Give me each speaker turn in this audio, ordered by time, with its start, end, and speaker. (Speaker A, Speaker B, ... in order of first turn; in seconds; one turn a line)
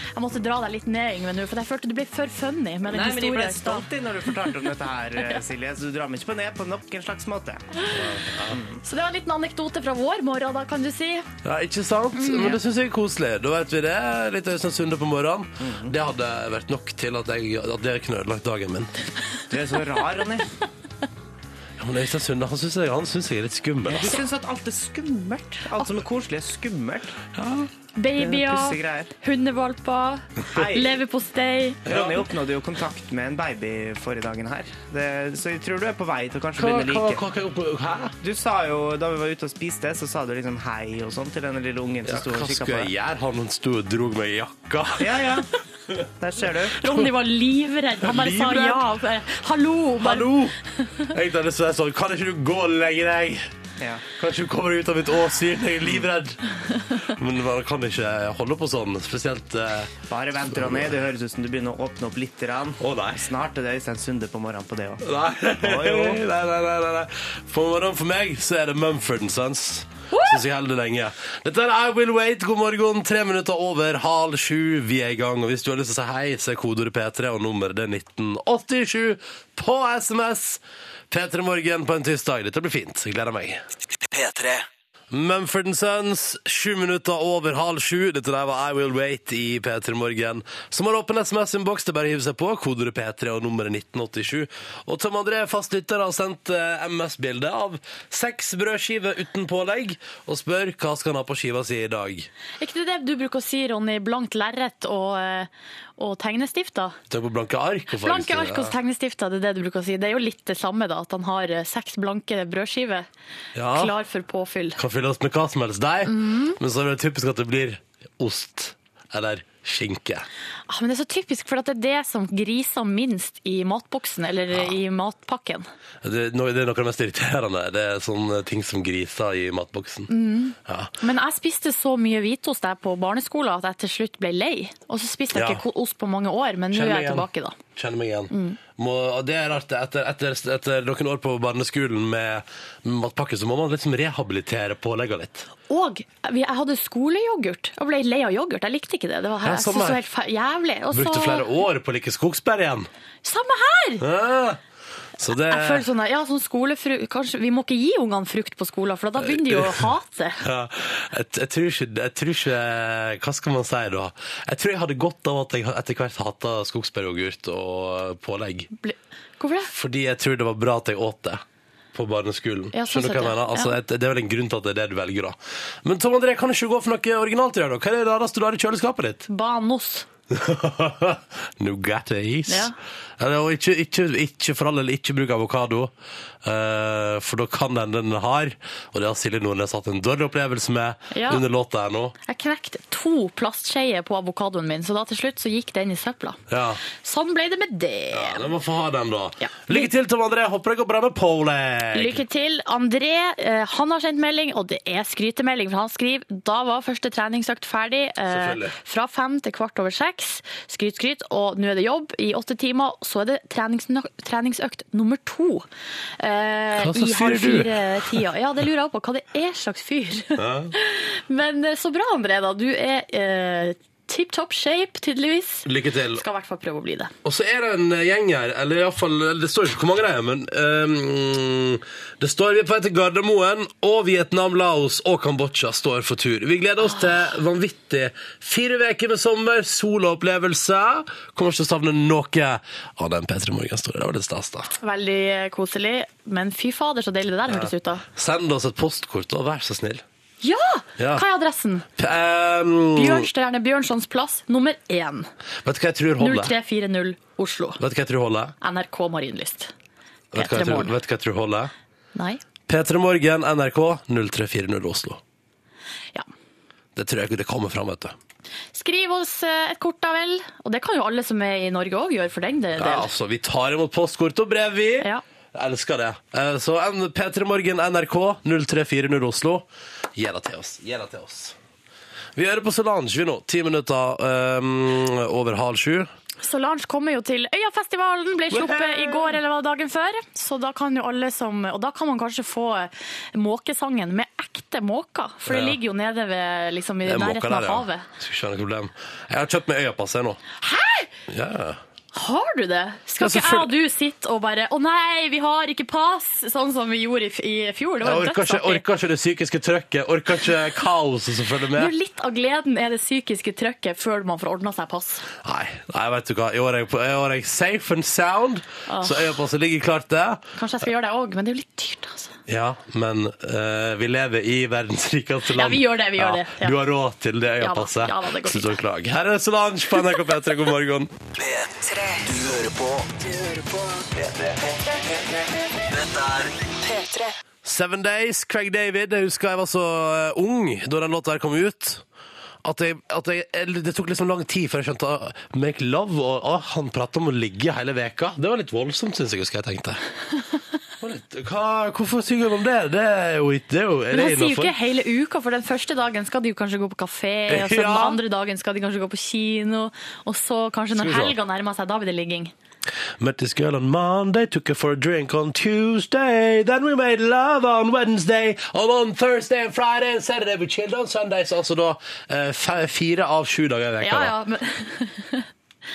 Speaker A: 0.2-3.9
Speaker B: 2.9-7.6
Speaker C: 7.9-8.5
Speaker B: 8.5-8.8
Speaker A: 8.8-11.3
Speaker C: 11.4-18.9
Speaker A: 12.2-12.6
Speaker B: 15.6-15.9
Speaker B: 19.5-20.5
Speaker C: 21.8-24.1
Speaker B: 23.9-27.2
Speaker C: 27.4-27.7
Speaker A: 27.9-31.9
Speaker B: 28.2-29.1
Speaker B: 30.5-31.0
Speaker C: 31.9-32.2
Speaker B: 31.9-37.2
Speaker C: 36.5-38.2
Speaker B: 38.2-42.9
Speaker C: 42.0-45.1
Speaker B: 45.0-45.5
Speaker B: 46.2-46.9
Speaker A: 46.8-51.1
Speaker C: 48.0-48.8
Speaker C: 50.0-50.5
Speaker C: 51.1-53.5
Speaker B: 53.8-54.0
Speaker C: 54.2-56.4
Speaker C: 57.0-59.9
Speaker B: 60.1-65.0
Speaker C: 60.5-60.8
Speaker C: 62.8-63.2
Speaker C: 65.0-83.6
Speaker B: 65.6-66.2
Speaker A: 70.1-70.4
Speaker D: 84.0-84.7
Speaker C: 85.1-102.3
Speaker A: 102.6-107.0
Speaker C: 107.1-108.7
Speaker A: 107.9-113.1
Speaker C: 113.5-113.9
Speaker A: 113.7-114.8
Speaker C: 114.8-120.3
Speaker A: 116.1-116.6
Speaker A: 120.7-125.7
Speaker C: 126.0-130.1
Speaker A: 130.1-137.6
Speaker C: 130.7-130.9
Speaker C: 135.3-135.6
Speaker C: 136.7-145.5
Speaker A: 138.3-138.6
Speaker A: 145.7-151.5
Speaker C: 149.4-150.0
Speaker C: 150.9-152.9
Speaker A: 153.2-154.0
Speaker C: 154.0-154.6
Speaker C: 155.2-155.8
Speaker A: 155.4-160.4
Speaker C: 159.2-159.8
Speaker C: 160.4-168.7
Speaker A: 168.8-169.7
Speaker C: 169.7-171.4
Speaker C: 171.9-179.2
Speaker A: 172.7-173.8
Speaker A: 179.3-180.1
Speaker C: 180.3-185.9
Speaker A: 182.5-182.7
Speaker C: 186.4-192.1
Speaker A: 191.1-191.4
Speaker A: 192.3-198.4
Speaker C: 196.5-196.8
Speaker C: 198.1-202.2
Speaker A: 199.4-199.9
Speaker A: 201.9-215.7
Speaker C: 208.3-208.8
Speaker A: 216.2-227.1
Speaker C: 216.8-218.2
Speaker C: 220.4-220.7
Speaker C: 225.6-226.2
Speaker C: 227.2-244.7
Speaker A: 244.8-248.0
Speaker C: 247.5-250.0
Speaker A: 250.4-251.9
Speaker C: 251.0-251.2
Speaker C: 252.0-253.3
Speaker A: 252.9-255.3
Speaker C: 255.6-256.5
Speaker A: 256.2-257.8
Speaker C: 257.8-258.5
Speaker A: 258.6-259.7
Speaker C: 260.3-261.7
Speaker A: 260.3-260.9
Speaker A: 262.1-262.4
Speaker C: 262.7-265.2
Speaker C: 266.9-268.1
Speaker A: 268.7-273.1
Speaker C: 272.8-281.6
Speaker C: 282.4-286.1
Speaker A: 286.4-298.1
Speaker C: 288.5-289.3
Speaker C: 295.4-295.8
Speaker C: 297.1-300.4
Speaker A: 300.6-301.1
Speaker C: 301.3-301.8
Speaker A: 302.1-308.8
Speaker C: 303.2-303.7
Speaker C: 308.0-311.9
Speaker A: 311.8-315.3
Speaker C: 315.4-320.4
Speaker A: 318.9-319.3
Speaker A: 320.6-322.3
Speaker C: 322.5-331.1
Speaker A: 325.5-326.8
Speaker A: 327.6-328.8
Speaker D: 331.3-335.2
Speaker D: 335.8-337.4
Speaker C: 337.6-342.0
Speaker C: 342.6-350.0
Speaker C: 351.0-354.7
Speaker A: 354.1-362.5
Speaker C: 357.5-358.2
Speaker C: 360.9-361.4
Speaker C: 363.2-374.3
Speaker A: 374.0-375.5